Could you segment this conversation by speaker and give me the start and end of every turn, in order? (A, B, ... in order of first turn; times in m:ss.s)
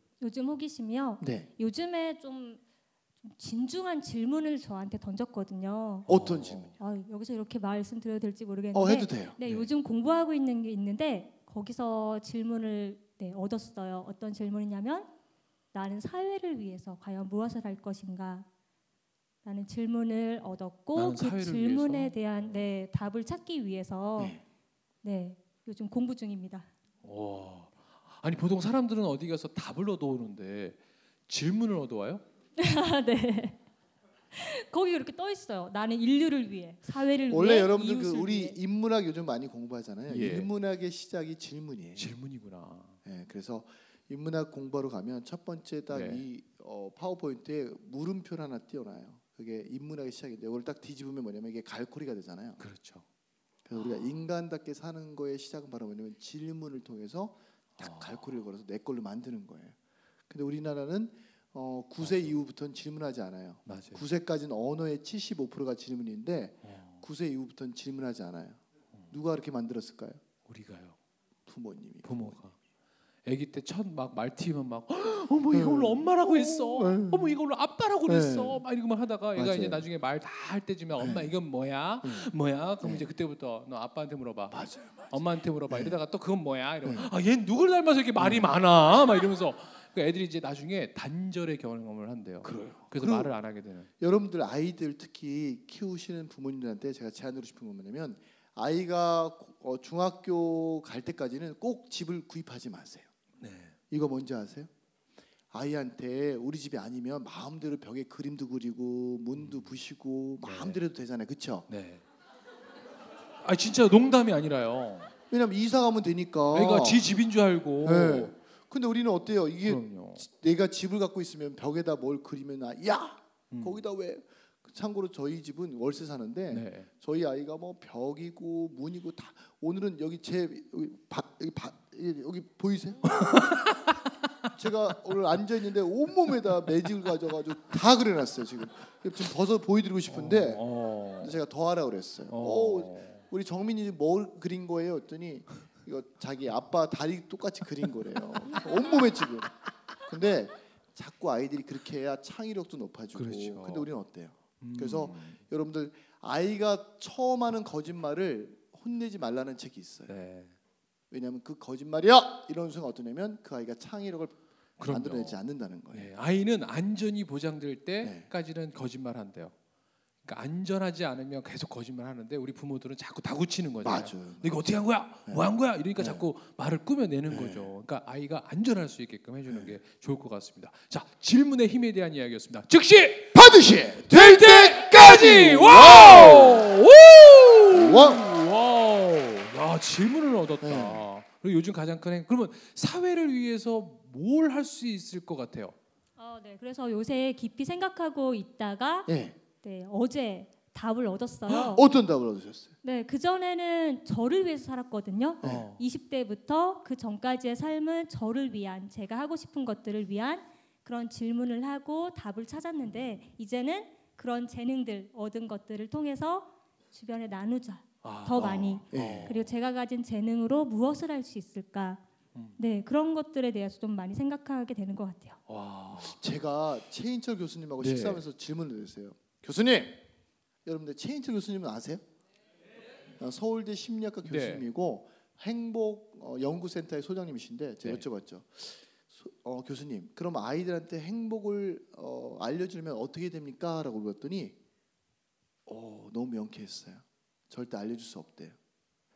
0:00.2-0:02.6 A
0:01.2-0:01.5 B
0:03.2-0:06.1 A
0:06.1-0:06.7 C
0:06.1-0:06.7 B
0:06.8-0:15.1 A
0:08.7-0:09.4 B
0:09.4-0:09.7 C
0:15.7-0:18.4 A
0:19.4-0:24.4 A
0:21.0-0:22.2 C
0:25.0-0:26.7 A
0:27.0-0:32.2 C
0:32.6-0:33.6 A
0:34.3-0:38.6 A
0:37.3-0:42.1 B
0:40.1-0:40.5 C
0:42.0-0:43.0 C
0:43.0-0:52.6 B
0:45.9-0:46.2 C
0:52.6-0:53.0 C
0:53.7-0:59.8 B
0:53.8-0:54.1 C
0:57.8-0:58.3 C
1:00.3-1:08.6 B
1:02.0-1:02.4 C
1:03.6-1:04.0 C
1:06.6-1:07.0 C
1:09.1-1:10.2 B
1:10.5-1:11.0 C
1:11.4-1:12.4 B
1:12.0-1:12.5 C
1:13.2-1:33.9 C
1:15.5-1:17.4 B
1:18.0-1:18.6 B
1:19.3-1:19.9 B
1:21.0-1:21.3 B
1:22.0-1:23.1 B
1:24.5-1:25.1 B
1:25.7-1:26.0 B
1:26.8-1:27.1 B
1:28.2-1:28.5 B
1:32.4-1:33.3 B
1:34.0-1:43.1 B
1:43.4-1:43.7 C
1:43.9-1:44.7 B
1:45.5-1:51.7 B
1:49.4-1:49.7 C
1:50.4-1:50.8 C
1:51.7-1:52.0 C
1:53.4-1:55.1 C
1:55.3-1:57.1 B
1:56.5-1:58.3 C
1:57.8-2:13.5 B
1:59.6-2:00.2 C
2:03.5-2:03.8 C
2:06.5-2:06.9 C
2:13.2-2:13.9 C
2:14.5-2:20.6 B
2:20.1-2:21.4 C
2:21.2-2:40.1 B
2:22.3-2:23.2 C
2:33.1-2:33.9 C
2:34.6-2:35.4 C
2:40.1-2:40.5 C
2:41.1-2:46.1 B
2:44.8-2:45.4 C
2:45.9-2:49.5 C
2:48.0-2:48.3 B
2:50.2-3:03.3 C
2:53.8-2:54.6 B
2:55.3-2:56.2 B
2:57.3-2:57.7 B
2:59.5-2:59.7 B
3:03.3-3:06.7 B
3:04.1-3:15.7 C
3:07.7-3:08.3 B
3:10.6-3:11.0 B
3:16.2-3:21.8 A
3:19.1-3:19.4 B
3:21.5-3:22.7 B
3:22.8-3:42.0 A
3:25.4-3:25.7 B
3:25.4-3:25.8 C
3:38.0-3:39.5 C
3:38.4-3:39.4 B
3:42.6-3:45.4 A
3:45.5-3:46.2 C
3:45.9-3:50.0 B
3:47.8-3:48.2 C
3:50.6-3:52.0 B
3:53.2-4:04.6 B
3:54.2-3:54.6 C
4:05.7-4:08.6 B